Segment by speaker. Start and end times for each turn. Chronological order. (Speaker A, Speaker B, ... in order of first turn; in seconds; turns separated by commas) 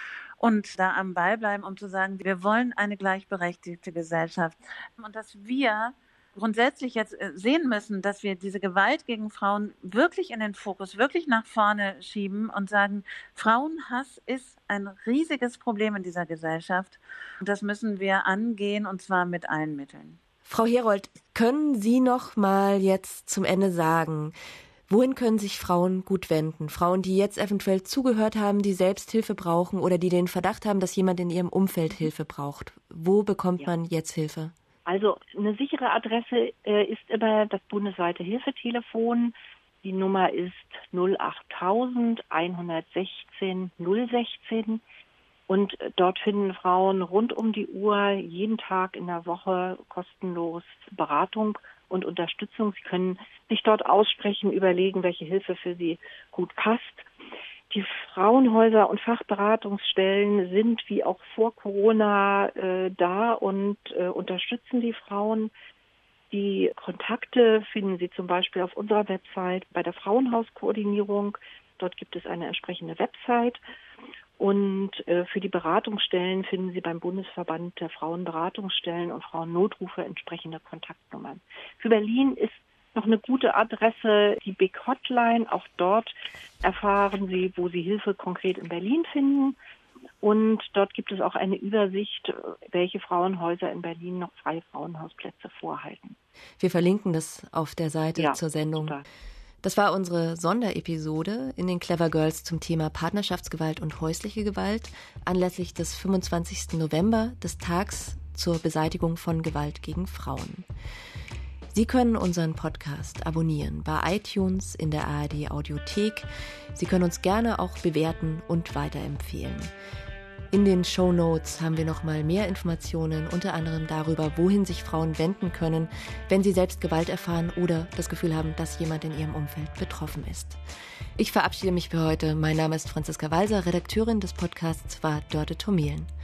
Speaker A: 0.4-20.2, Speaker B: 20.4-24.4, Speaker B: 24.9-34.5, Speaker C: 34.9-44.8, Speaker C: 45.5-57.1, Speaker C: 57.7-65.5, Speaker C: 66.3-73.6, Speaker C: 74.4-89.6, Speaker C: 90.2-96.2, Speaker B: 96.6-99.0, Speaker C: 98.2-99.0, Speaker B: 99.6-110.7, Speaker B: 111.7-119.7, Speaker B: 120.5-130.6, Speaker B: 131.2-136.1